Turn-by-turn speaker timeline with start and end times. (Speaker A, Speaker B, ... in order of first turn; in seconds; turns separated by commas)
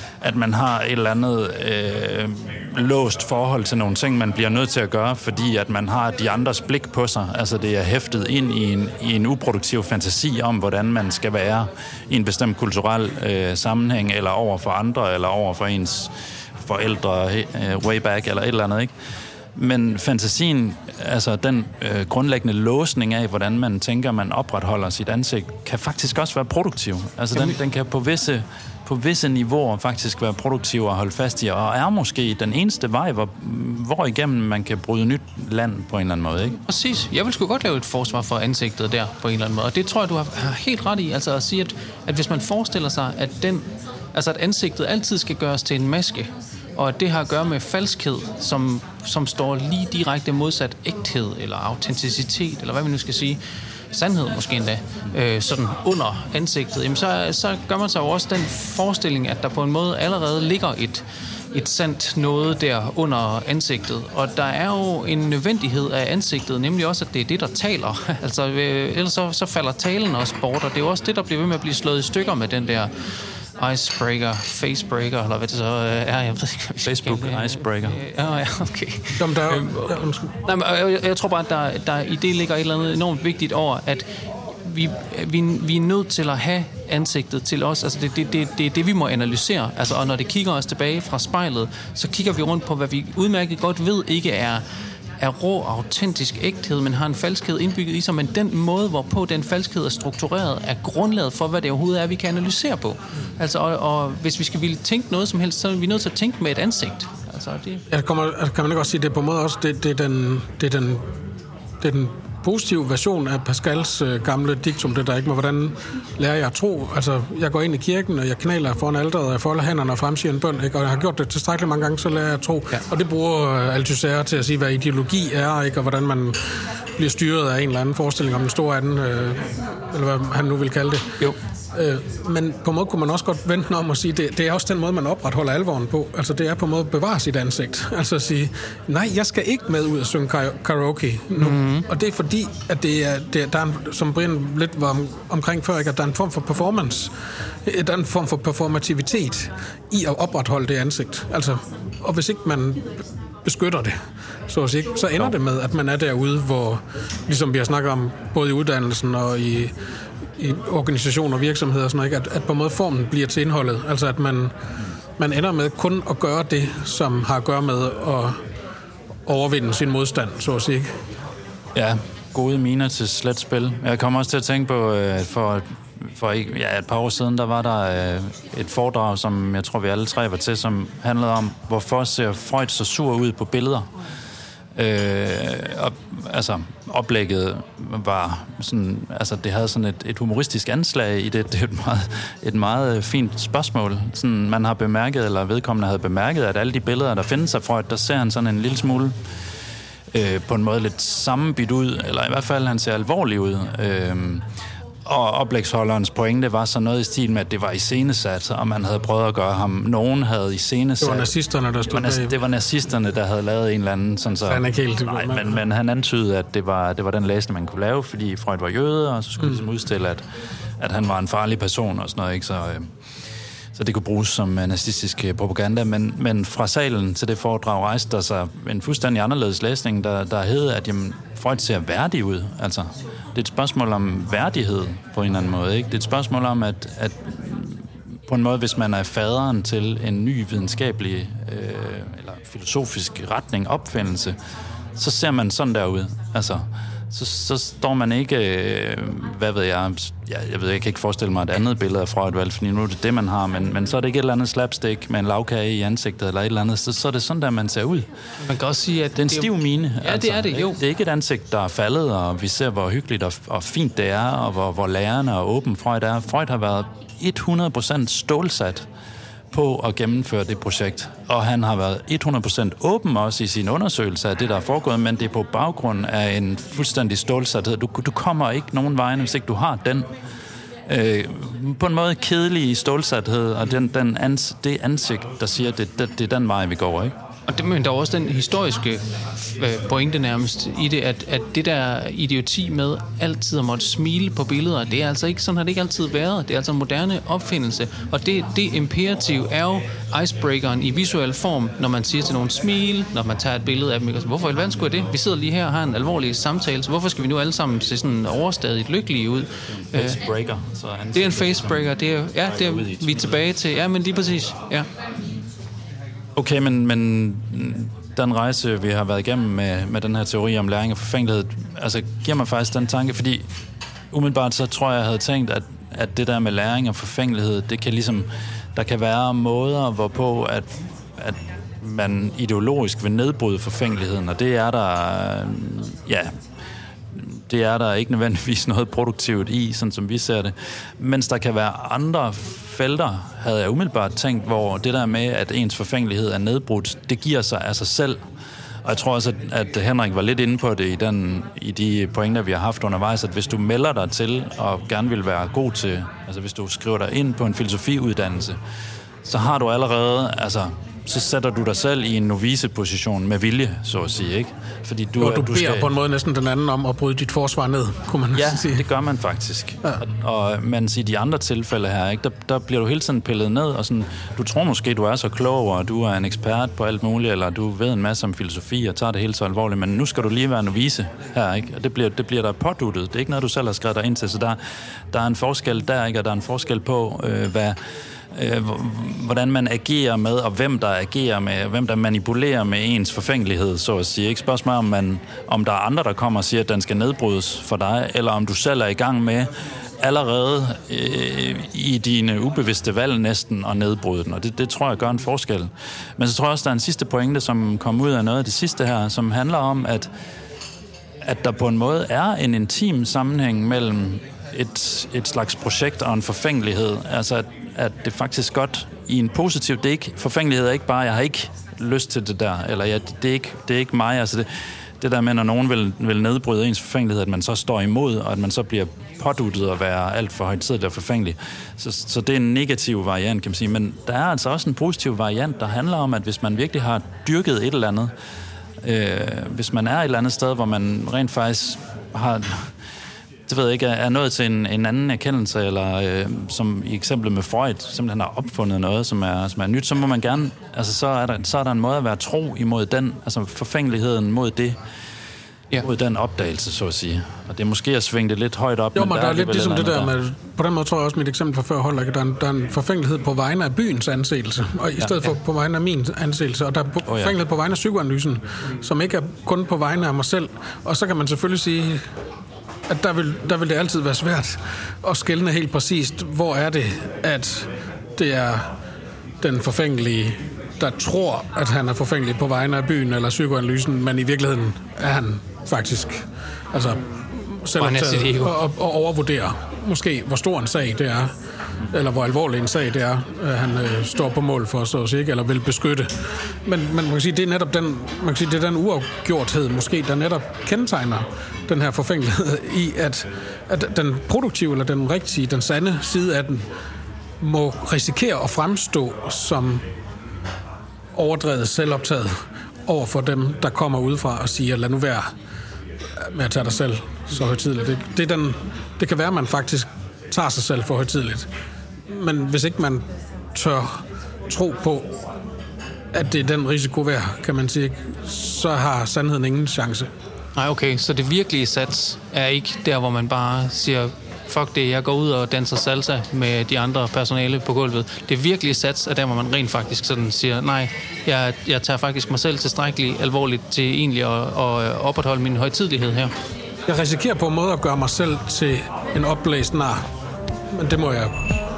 Speaker A: 0.2-18.9, Speaker A: 19.6-36.6, Speaker B: 36.7-53.4, Speaker B: 53.9-72.9, Speaker B: 73.6-94.6, Speaker A: 76.8-78.0, Speaker C: 79.2-80.3, Speaker B: 95.2-107.8, Speaker C: 107.9-111.2, Speaker C: 111.8-159.7, Speaker B: 141.4-141.8, Speaker C: 160.4-164.5, Speaker C: 165.2-168.4, Speaker C: 169.2-171.0, Speaker A: 171.7-183.9, Speaker A: 184.7-199.1, Speaker A: 200.1-204.4, Speaker A: 205.0-211.3, Speaker C: 211.0-212.3, Speaker A: 211.9-220.2, Speaker C: 214.4-215.6, Speaker A: 220.8-222.9, Speaker A: 223.7-244.3, Speaker A: 244.9-258.1, Speaker B: 258.4-260.8, Speaker A: 259.1-268.9, Speaker A: 269.5-280.1, Speaker A: 280.9-287.1, Speaker B: 287.5-310.2, Speaker A: 309.9-311.8, Speaker B: 311.1-314.9, Speaker A: 312.5-313.3, Speaker A: 316.4-323.4, Speaker A: 324.1-336.3, Speaker A: 337.1-348.2, Speaker A: 348.8-358.6, Speaker A: 359.2-365.9, Speaker C: 365.2-368.9, Speaker A: 368.3-384.6, Speaker A: 385.1-387.8, Speaker A: 388.3-410.1, Speaker A: 411.2-424.5, Speaker A: 425.0-438.1, Speaker A: 438.8-442.7, Speaker A: 443.5-454.8, Speaker A: 455.8-460.1, Speaker C: 458.9-472.1, Speaker A: 467.1-467.3, Speaker C: 472.9-478.7, Speaker C: 479.4-506.7, Speaker B: 487.8-488.6, Speaker C: 507.4-509.9, Speaker C: 511.1-515.3, Speaker C: 516.1-521.5, Speaker C: 522.1-525.2, Speaker C: 526.1-530.1, Speaker B: 530.5-546.3, Speaker C: 546.9-550.0, Speaker C: 550.7-551.5